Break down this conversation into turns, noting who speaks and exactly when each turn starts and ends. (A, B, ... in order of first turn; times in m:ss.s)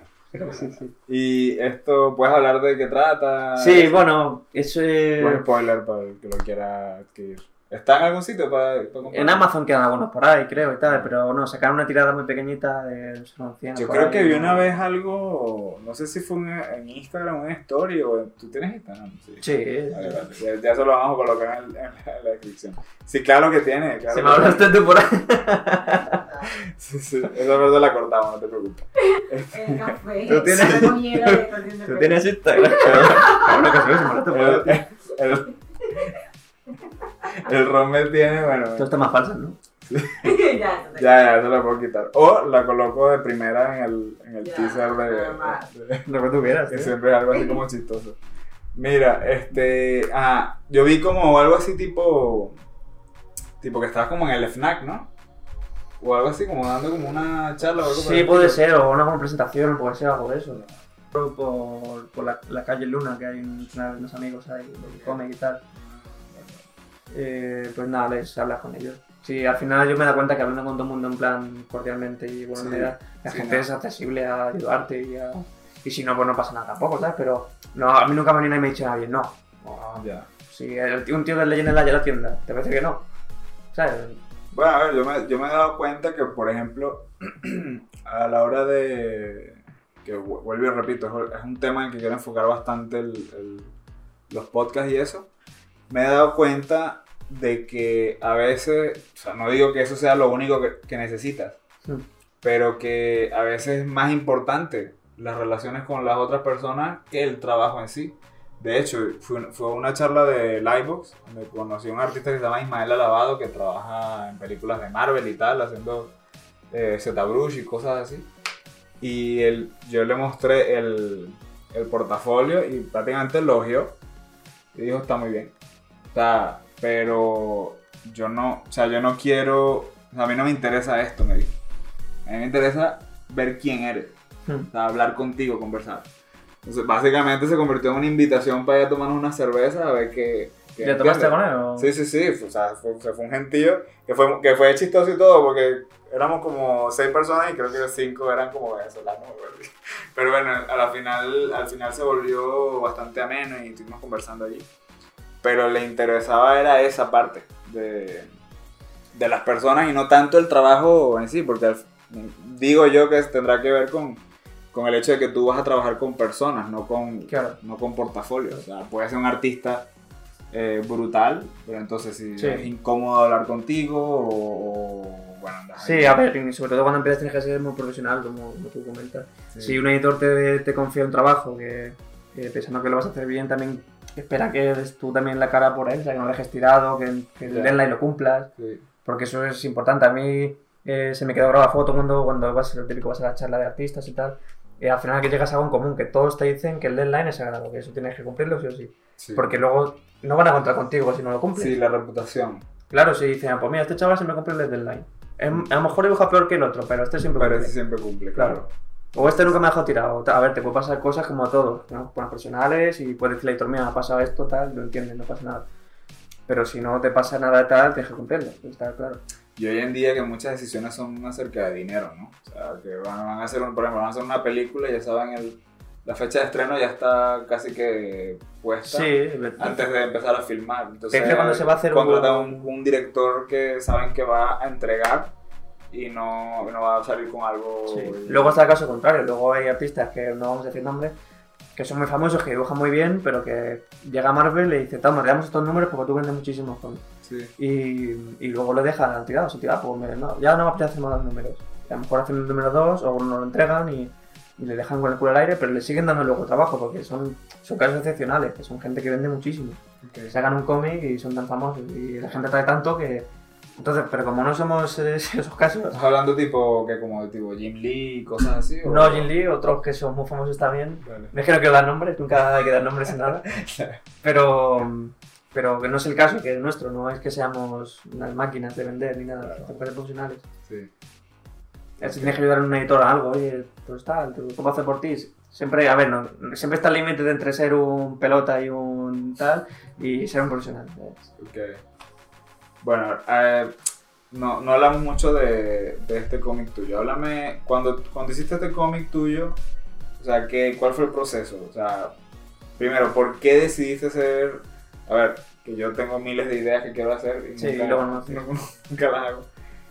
0:00.3-0:00.9 A
0:00.5-0:04.1 B
0:03.6-0:05.4 A
0:05.2-0:09.5 B
0:09.1-0:14.8 A
0:10.8-0:11.1 B
0:13.7-0:24.9 B
0:19.4-0:20.4 A
0:24.1-0:26.2 A
0:26.5-0:31.0 B
0:29.0-0:33.9 C
0:30.2-0:34.8 A
0:32.9-0:33.1 B
0:34.3-0:36.2 B
0:37.2-0:38.9 B
0:38.8-0:39.6 A
0:39.9-0:40.4 B
0:40.2-0:41.1 C
0:41.0-0:46.1 B
0:44.4-0:45.7 C
0:46.1-0:46.9 A
0:46.6-0:48.2 B
0:47.3-0:47.6 C
0:48.7-0:52.6 B
0:53.6-0:55.1 B
0:56.0-0:58.6 B
0:57.8-1:05.6 A
1:04.8-1:05.2 B
1:05.7-1:06.6 B
1:07.1-1:23.0 A
1:12.6-1:13.7 B
1:20.0-1:20.3 B
1:23.7-1:24.2 A
1:24.5-1:33.7 B
1:34.3-1:35.3 B
1:35.9-1:41.6 B
1:42.4-1:56.1 B
1:56.7-1:58.3 B
1:59.0-2:04.0 B
2:04.7-2:05.5 B
2:06.1-2:11.6 B
2:12.2-2:14.2 B
2:14.7-2:16.1 B
2:16.6-2:34.7 B
2:20.8-2:21.9 A
2:35.4-2:38.3 B
2:39.1-2:49.9 B
2:47.3-2:47.6 A
2:50.5-2:56.2 B
2:52.4-2:52.7 A
2:55.8-3:08.5 A
2:59.5-2:59.8 B
3:07.4-3:07.8 B
3:08.6-3:08.8 B
3:09.0-3:21.7 A
3:19.2-3:19.6 B
3:21.6-3:22.6 B
3:22.9-3:27.7 A
3:27.3-3:28.7 B
3:28.4-3:28.6 A
3:29.1-3:35.6 A
3:36.5-3:39.2 A
3:39.6-3:55.3 B
3:48.9-3:49.8 A
3:51.1-3:52.7 A
3:55.9-3:58.6 B
3:57.9-4:01.2 A
4:01.7-4:07.0 A
4:07.2-4:07.5 B
4:07.6-4:26.0 A
4:20.0-4:20.4 B
4:25.9-4:29.3 B
4:28.8-4:33.4 A
4:31.0-4:31.3 B
4:33.4-4:34.0 B
4:34.2-4:40.4 A
4:39.4-4:39.8 B
4:42.0-4:51.3 A
4:42.0-4:42.4 B
4:51.4-4:51.8 B
4:52.8-4:53.8 B
4:54.3-4:59.6 B
5:00.2-5:02.1 B
5:02.8-5:09.5 B
5:07.6-5:08.4 A